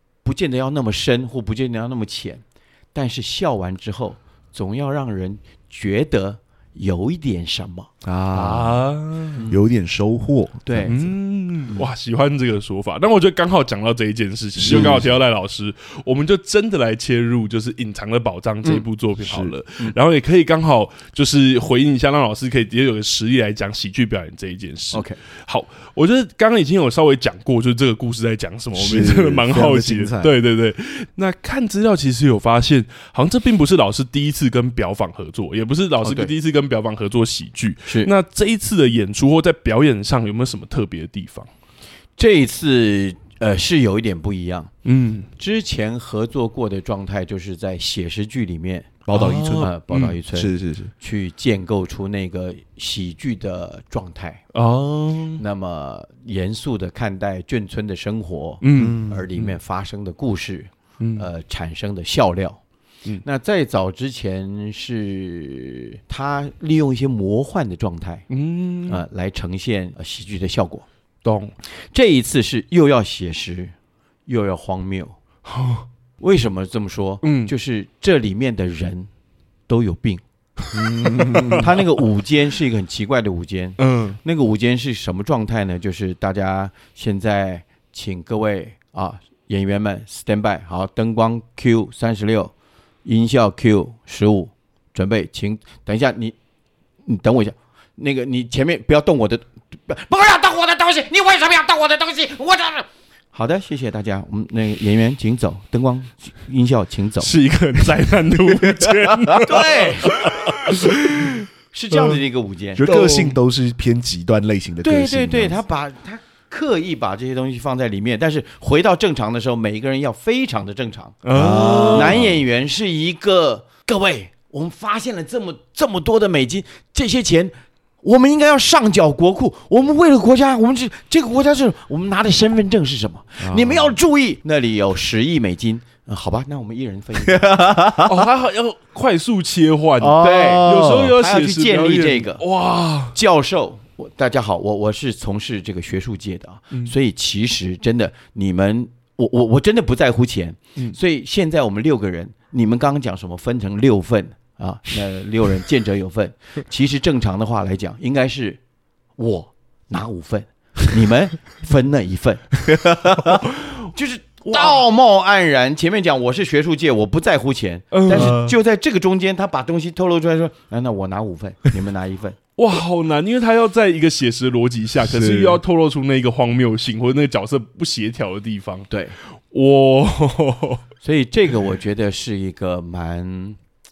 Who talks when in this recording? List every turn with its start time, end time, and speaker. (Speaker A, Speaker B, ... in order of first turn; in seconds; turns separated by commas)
Speaker A: 0.2-2.4, Speaker A: 2.9-7.9, Speaker B: 8.0-8.8, Speaker C: 8.3-9.4, Speaker B: 9.5-11.0, Speaker A: 10.7-11.0, Speaker C: 10.9-41.5, Speaker B: 14.6-15.1, Speaker A: 14.7-15.0, Speaker B: 19.2-19.5, Speaker A: 24.9-25.2, Speaker B: 28.8-30.3, Speaker A: 36.0-36.3, Speaker A: 42.2-44.7, Speaker C: 44.9-45.3, Speaker A: 45.4-49.1, Speaker B: 49.1-50.9, Speaker C: 49.1-50.2, Speaker A: 49.6-54.4, Speaker C: 54.5-55.4, Speaker A: 55.4-62.6, Speaker C: 58.6-59.6, Speaker B: 58.8-59.3, Speaker C: 61.0-61.3, Speaker A: 63.2-68.3, Speaker C: 68.3-69.0, Speaker A: 68.9-70.9, Speaker C: 71.2-71.5, Speaker A: 71.9-73.7, Speaker A: 74.3-75.1, Speaker C: 75.5-75.9, Speaker A: 76.2-79.1, Speaker C: 77.2-77.5, Speaker A: 79.7-80.2, Speaker C: 80.7-81.7, Speaker B: 80.7-81.7, Speaker A: 81.5-92.5, Speaker C: 83.8-84.2, Speaker A: 93.0-96.3, Speaker A: 97.0-107.3, Speaker C: 107.2-111.5, Speaker B: 108.6-109.4, Speaker A: 109.4-110.2, Speaker A: 111.7-112.8, Speaker B: 112.8-115.6, Speaker C: 112.8-113.4, Speaker A: 114.8-137.7, Speaker C: 121.2-122.2, Speaker B: 121.3-122.4, Speaker B: 133.4-134.0, Speaker B: 137.3-138.3, Speaker C: 138.0-143.2, Speaker B: 140.0-141.2, Speaker A: 140.2-142.4, Speaker A: 143.1-158.6, Speaker A: 159.2-172.4, Speaker C: 167.9-168.4, Speaker B: 168.1-168.6, Speaker C: 172.6-178.9, Speaker B: 175.0-175.6, Speaker A: 178.9-179.2, Speaker C: 179.5-180.8, Speaker A: 181.0-183.6